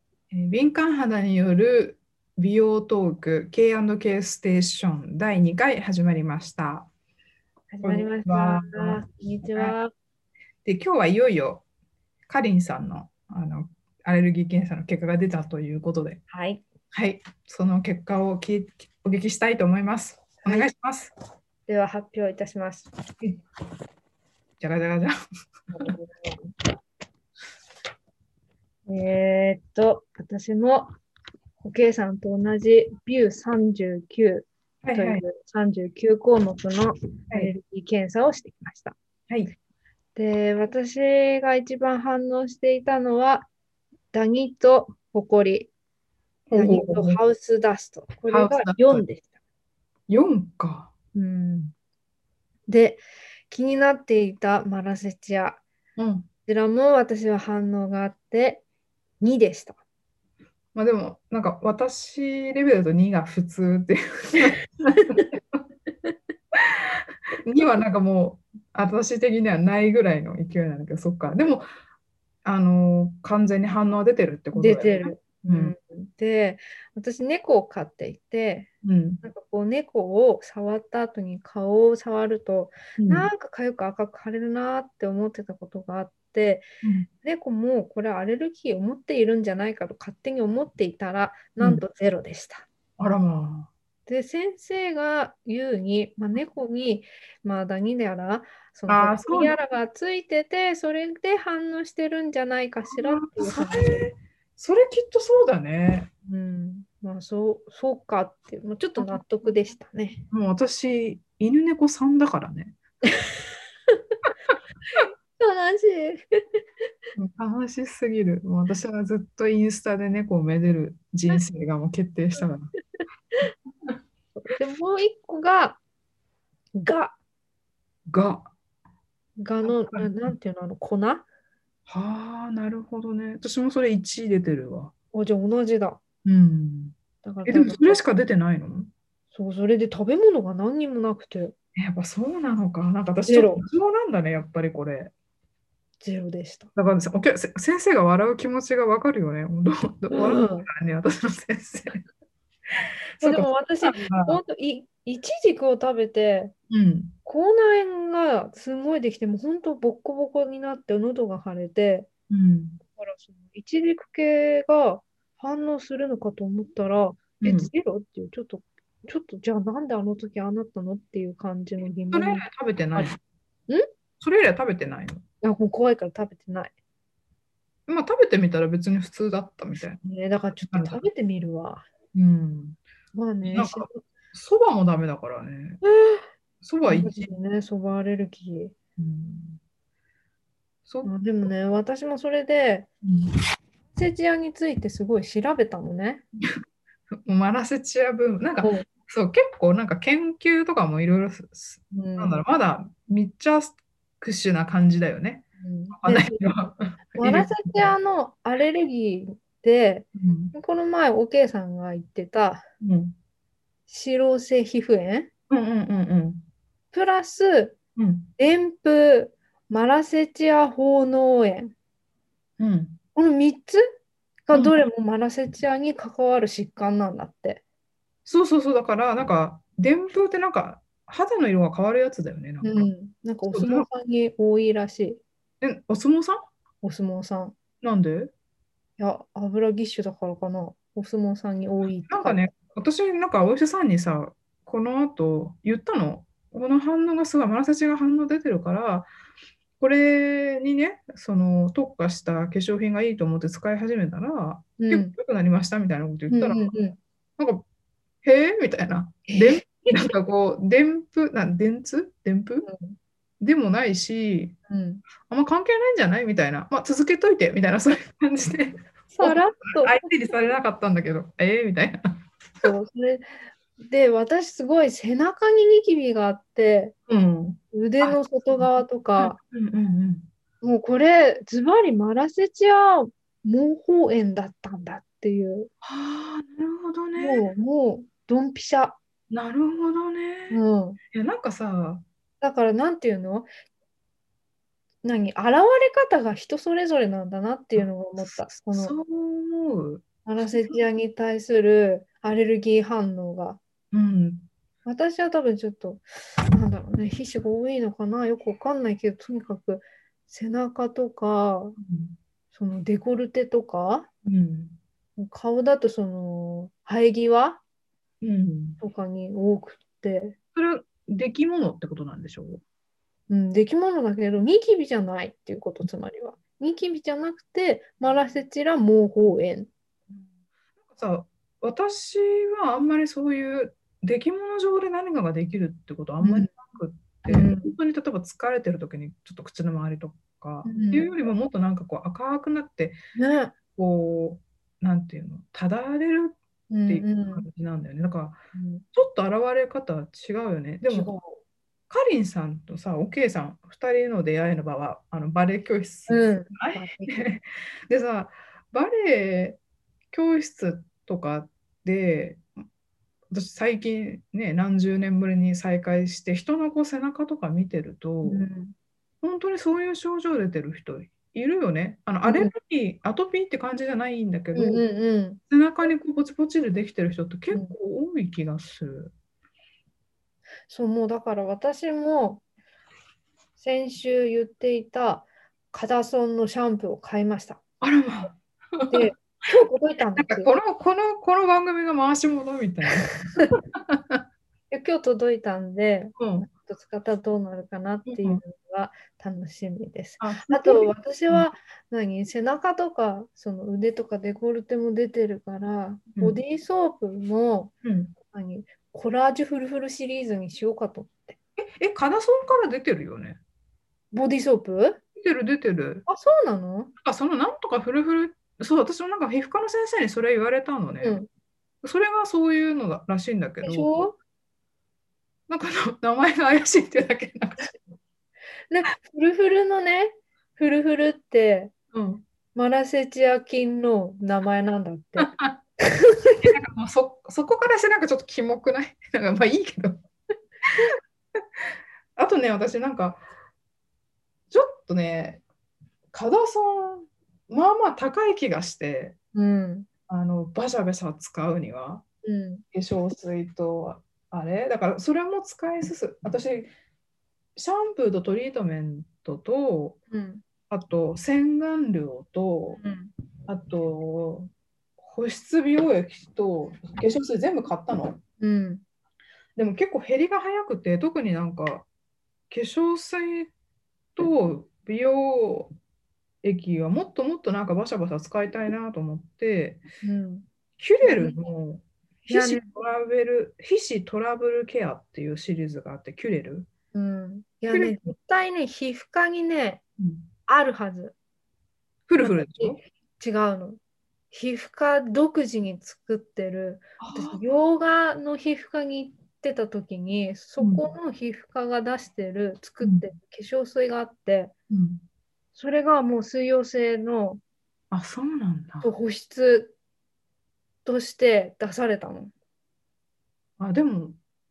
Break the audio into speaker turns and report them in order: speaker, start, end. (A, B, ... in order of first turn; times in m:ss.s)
0:00.3-0:06.9 A
0:07.7-0:09.9 B
0:07.8-0:09.0 A
0:10.6-0:11.6 A
0:12.3-0:16.2 A
0:16.3-0:16.6 B
0:16.9-0:21.1 A
0:20.4-0:20.7 B
0:21.7-0:22.9 B
0:24.6-0:25.1 A
0:25.7-0:26.5 B
0:28.9-0:30.9 B
0:31.6-0:39.0 B
0:34.8-0:35.2 A
0:39.3-0:39.5 A
0:40.2-0:43.5 B
0:44.1-0:45.7 B
0:46.5-0:47.2 A
0:46.5-0:49.3 B
0:48.3-0:49.0 A
0:50.1-0:50.9 A
0:51.1-0:51.7 B
0:52.7-0:55.6 B
0:56.0-0:56.3 A
0:56.5-0:58.6 B
0:59.2-0:59.8 B
1:00.7-1:05.6 A
1:06.5-1:06.8 A
1:07.4-1:11.7 A
1:12.4-1:15.7 A
1:14.5-1:18.7 B
1:18.8-1:19.2 A
1:19.2-1:26.6 B
1:23.0-1:23.3 A
1:26.8-1:27.1 A
1:27.2-1:32.6 B
1:33.0-1:33.7 A
1:34.1-1:44.0 B
1:38.9-1:39.6 A
1:42.9-1:46.1 A
1:46.3-1:50.2 B
1:49.0-1:49.2 A
1:50.3-1:52.8 A
1:55.0-1:56.2 B
1:57.2-2:02.7 A
2:04.4-2:05.8 B
2:06.8-2:07.2 B
2:08.1-2:08.5 A
2:09.4-2:11.2 B
2:09.6-2:10.3 A
2:11.9-2:14.9 A
2:15.1-2:16.0 B
2:16.2-2:16.9 A
2:17.2-2:18.0 B
2:17.4-2:18.9 A
2:19.3-2:21.5 B
2:21.8-2:25.1 A
2:23.3-2:23.6 B
2:26.0-2:26.7 B
2:26.8-2:32.0 A
2:30.1-2:30.7 B
2:33.2-2:34.4 A
2:33.2-2:36.5 B
2:36.7-2:37.1 A
2:37.2-2:42.1 B
2:42.3-2:42.8 A
2:43.0-2:53.1 B
2:47.4-2:47.7 A
2:52.1-2:53.2 A
2:54.2-2:55.2 A
2:55.4-2:56.7 B
2:57.9-3:00.0 A
3:00.0-3:01.8 B
3:00.7-3:01.0 A
3:02.1-3:02.8 A
3:03.1-3:04.0 B
3:03.4-3:05.8 A
3:05.8-3:06.2 B
3:06.6-3:07.3 A
3:06.8-3:08.7 B
3:09.0-3:09.6 A
3:10.9-3:11.1 A
3:11.0-3:12.9 B
3:13.0-3:13.3 A
3:13.9-3:16.2 B
3:17.2-3:27.9 A
3:18.6-3:18.9 B
3:21.9-3:22.4 B
3:25.6-3:26.5 B
3:27.2-3:32.6 B
3:30.2-3:30.5 A
3:32.8-3:33.1 A
3:33.9-3:35.3 B
3:35.5-3:36.4 A
3:36.9-3:37.8 B
3:38.0-3:38.3 A
3:38.4-3:41.7 B
3:42.6-3:43.0 A
3:43.2-3:43.8 B
3:44.4-3:47.6 B
3:44.5-3:44.8 A
3:48.2-3:52.9 A
3:52.6-3:55.2 B
3:53.5-3:53.9 A
3:55.6-3:56.4 A
3:56.8-3:57.6 B
3:57.8-3:58.3 A
3:59.0-4:02.4 B
4:02.0-4:09.1 A
4:09.8-4:16.8 A
4:14.8-4:15.1 B
4:16.3-4:17.0 B
4:17.4-4:17.6 A
4:18.2-4:22.7 A
4:19.3-4:20.0 B
4:22.6-4:23.0 B
4:23.4-4:24.6 A
4:24.7-4:25.0 B
4:25.2-4:32.7 A
4:29.1-4:30.0 B
4:32.6-4:36.9 B
4:37.1-4:40.3 A
4:37.7-4:39.4 B
4:40.6-4:45.7 B
4:45.8-4:47.4 A
4:47.2-4:49.0 B
4:49.3-4:50.6 A
4:50.5-4:51.0 B
4:51.1-4:52.0 A
4:52.4-4:53.5 B
4:55.0-4:58.9 B
4:57.7-5:00.8 A
5:00.2-5:03.6 B
5:03.9-5:04.5 A
5:04.8-5:11.8 B
5:11.8-5:12.2 A
5:12.5-5:14.1 B
5:14.2-5:14.8 A
5:15.2-5:17.6 B
5:18.2-5:18.8 A
5:18.8-5:20.4 B
5:20.6-5:22.6 A
5:23.3-5:29.7 B
5:30.1-5:43.0 A
5:36.2-5:36.5 B
5:37.3-5:37.7 B
5:40.6-5:41.1 B
5:43.1-5:43.5 B
5:43.8-5:48.4 A
5:46.7-5:47.4 B
5:48.5-5:48.8 B
5:48.9-5:51.1 A
5:50.9-5:51.4 B
5:51.9-5:59.6 A
5:56.1-5:57.2 B
6:00.1-6:02.4 A
6:03.3-6:08.5 A
6:08.2-6:08.7 B
6:09.2-6:14.8 A
6:12.2-6:12.5 B
6:14.5-6:15.4 B
6:15.5-6:19.1 A
6:20.7-6:22.4 B
6:23.6-6:27.6 B
6:27.8-6:29.1 A
6:28.9-6:30.5 B
6:30.2-6:34.2 A
6:34.7-6:47.7 B
6:36.2-6:36.5 A
6:38.1-6:38.4 A
6:40.2-6:41.5 A
6:47.8-6:48.1 A
6:48.3-6:51.4 B
6:51.8-6:53.4 A
6:54.1-6:55.0 B
6:55.2-6:56.0 A
6:56.0-6:56.9 B
6:57.0-7:01.2 A
7:01.0-7:01.3 B
7:01.8-7:03.9 A
7:03.6-7:04.2 B
7:05.5-7:07.7 A
7:08.7-7:11.7 B
7:11.9-7:12.2 A
7:12.5-7:15.3 B
7:15.2-7:15.6 A
7:15.8-7:16.5 B
7:16.3-7:20.0 A
7:22.2-7:23.2 A
7:24.5-7:25.4 A
7:26.1-7:29.2 A
7:29.3-7:29.9 B
7:30.1-7:32.0 A
7:32.2-7:32.6 B
7:32.7-7:36.7 A
7:37.6-7:40.0 A
7:40.1-7:40.4 B
7:40.7-7:42.8 A
7:42.8-7:43.1 B
7:43.5-7:48.2 A
7:48.4-7:48.8 B
7:49.6-7:51.9 A
7:52.5-7:53.5 A
7:54.2-7:55.7 A
7:56.4-7:59.8 A
8:00.0-8:00.5 B
8:00.8-8:06.7 A
8:01.0-8:01.5 B
8:02.3-8:02.7 B
8:06.9-8:09.8 B
8:07.7-8:08.1 A
8:10.0-8:10.3 A
8:10.5-8:11.1 B
8:12.1-8:12.8 A
8:12.2-8:13.8 B
8:14.3-8:24.5 B
8:17.0-8:17.4 A
8:20.6-8:20.8 A
8:22.8-8:23.0 A
8:24.7-8:25.0 A
8:25.5-8:27.4 B
8:27.9-8:28.9 A
8:28.8-8:29.7 B
8:30.8-8:32.3 B
8:33.6-8:34.2 A